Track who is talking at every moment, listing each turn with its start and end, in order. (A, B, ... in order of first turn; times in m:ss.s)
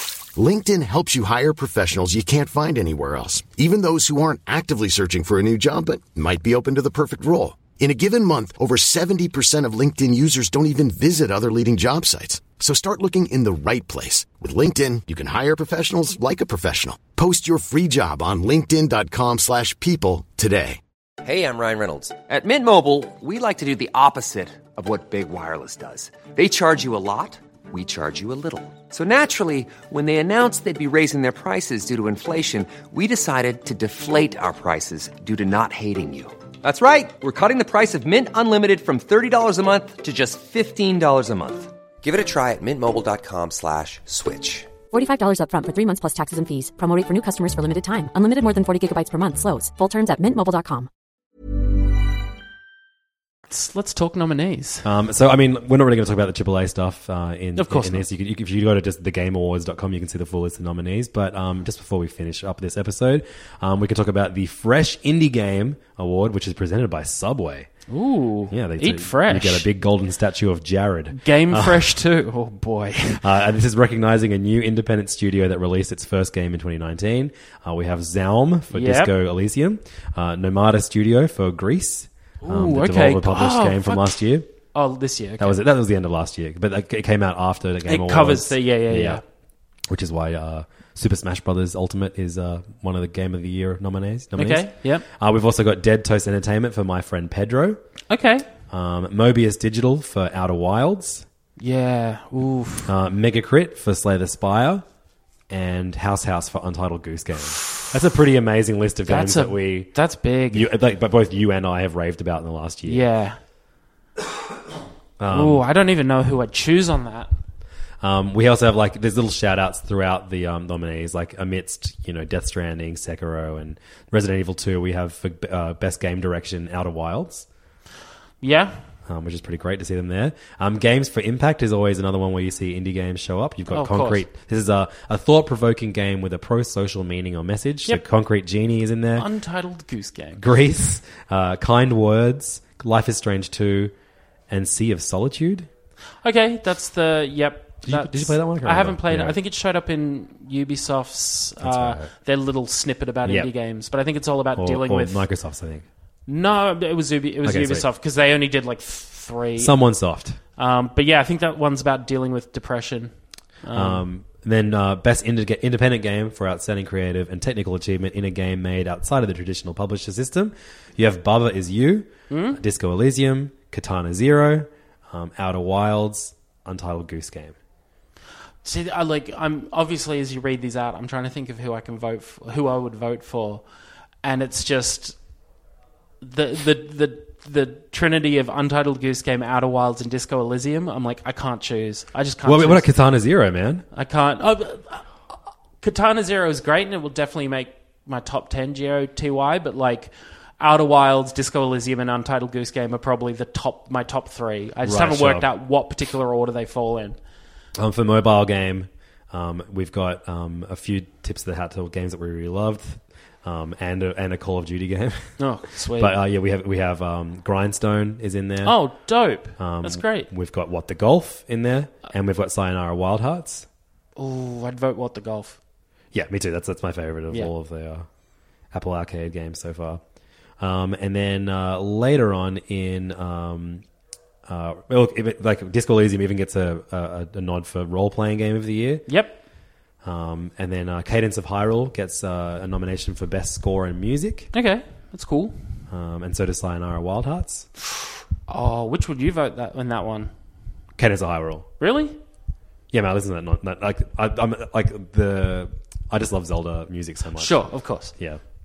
0:00.3-0:20.8 A
0:21.2-0:44.7 B
0:44.9-0:50.9 C
0:53.5-0:54.8 D
0:54.8-1:07.7 E
0:57.6-0:58.0 D
1:07.9-1:09.6 D
1:08.5-1:11.9 E
1:11.1-1:13.2 D
1:13.2-1:24.5 E
1:18.7-1:19.1 D
1:22.4-1:24.2 D
1:24.7-1:25.6 D
1:25.4-1:29.2 E
1:27.9-1:29.2 D
1:29.9-1:37.8 E
1:34.3-1:35.0 D
1:38.1-1:38.5 D
1:38.7-1:41.2 E
1:41.6-1:42.9 D
1:42.9-1:44.8 E
1:45.5-1:49.9 E
1:49.1-1:50.7 D
1:50.5-1:53.0 E
1:52.8-1:53.4 D
1:55.2-1:55.6 E
1:55.3-1:57.3 D
1:58.0-2:07.4 E
2:08.4-2:08.8 D
2:09.0-2:19.3 E
2:13.7-2:14.2 D
2:19.2-2:20.4 D
2:20.4-2:23.9 E
2:24.5-2:25.7 E
2:26.2-2:35.2 D
2:27.8-2:29.4 E
2:31.6-2:32.1 E
2:33.2-2:33.5 E
2:34.6-2:35.8 E
2:36.3-2:39.8 D
2:37.4-2:37.8 E
2:39.6-2:40.4 E
2:40.6-2:44.0 D
2:43.7-2:57.6 E
2:52.3-2:52.6 D
2:58.6-3:03.6 D
3:04.2-3:05.2 D
3:06.2-3:12.9 D
3:12.4-3:13.8 E
3:13.9-3:15.1 D
3:15.8-3:27.2 D
3:24.8-3:25.4 E
3:27.8-3:35.4 E
3:35.4-3:36.2 D
3:35.9-3:38.8 E
3:38.6-3:40.3 D
3:39.6-3:43.7 E
3:44.2-3:45.6 D
3:46.1-3:48.1 E
3:48.7-3:50.0 E
3:50.6-3:53.8 E
3:54.4-3:59.1 E
3:59.1-3:59.4 D
4:00.0-4:04.5 E
4:04.5-4:05.6 D
4:05.9-4:07.7 E
4:08.5-4:10.3 D
4:11.0-4:11.7 E
4:11.8-4:12.2 D
4:12.9-4:18.4 E
4:17.4-4:18.1 D